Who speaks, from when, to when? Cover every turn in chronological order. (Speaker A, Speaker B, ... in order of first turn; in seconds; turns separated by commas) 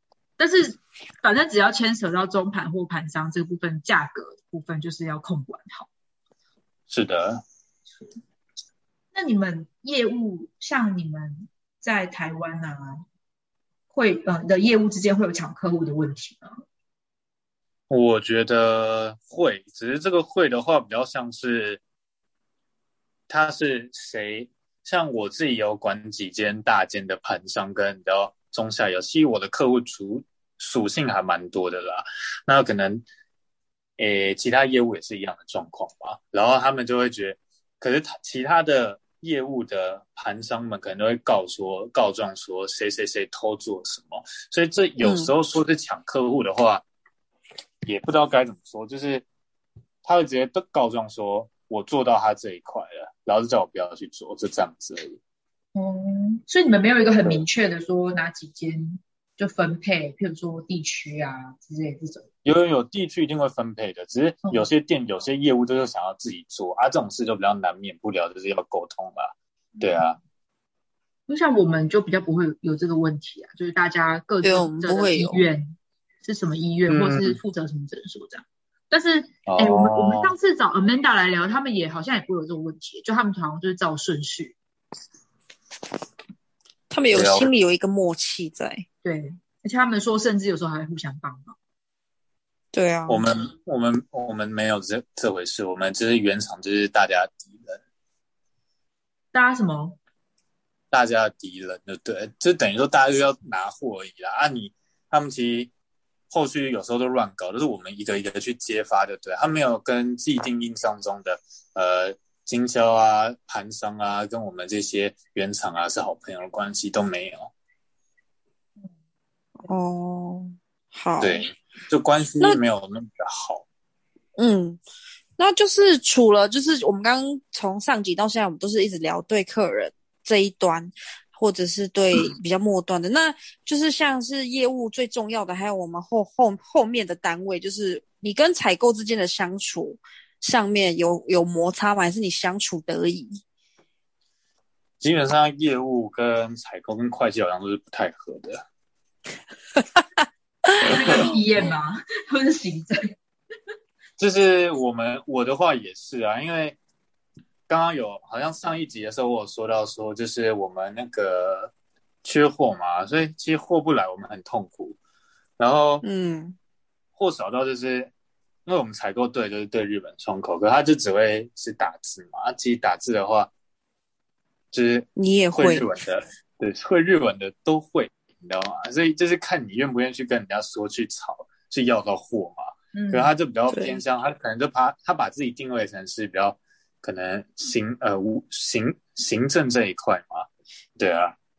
Speaker A: 0.4-5.9, Speaker B: 6.9-7.4, Speaker A: 9.1-13.1, Speaker A: 13.9-16.5, Speaker B: 17.9-21.8, Speaker B: 23.3-33.0, Speaker B: 34.0-46.8, Speaker C: 45.0-45.3, Speaker B: 47.9-49.2, Speaker B: 50.0-55.2, Speaker A: 55.8-62.3, Speaker B: 62.5-70.2, Speaker A: 71.3-84.6, Speaker C: 74.4-75.5, Speaker B: 76.9-77.4, Speaker B: 79.5-80.3, Speaker C: 86.9-88.8, Speaker B: 87.1-87.5, Speaker A: 89.0-91.6, Speaker C: 92.7-93.3, Speaker B: 93.1-97.8, Speaker A: 99.3-100.0, Speaker B: 100.9-105.7, Speaker B: 106.3-117.5, Speaker C: 119.7-121.4, Speaker B: 121.2-123.7, Speaker C: 124.4-124.8, Speaker C: 125.4-143.4, Speaker B: 145.0-148.7, Speaker B: 150.8-151.3, Speaker A: 150.8-153.0, Speaker B: 154.2-156.8, Speaker B: 157.7-165.0, Speaker B: 165.6-166.0, Speaker C: 166.0-166.6, Speaker B: 167.2-168.1, Speaker B: 168.7-173.5, Speaker B: 174.7-191.4, Speaker C: 175.2-175.9, Speaker A: 182.9-183.3, Speaker C: 183.7-184.0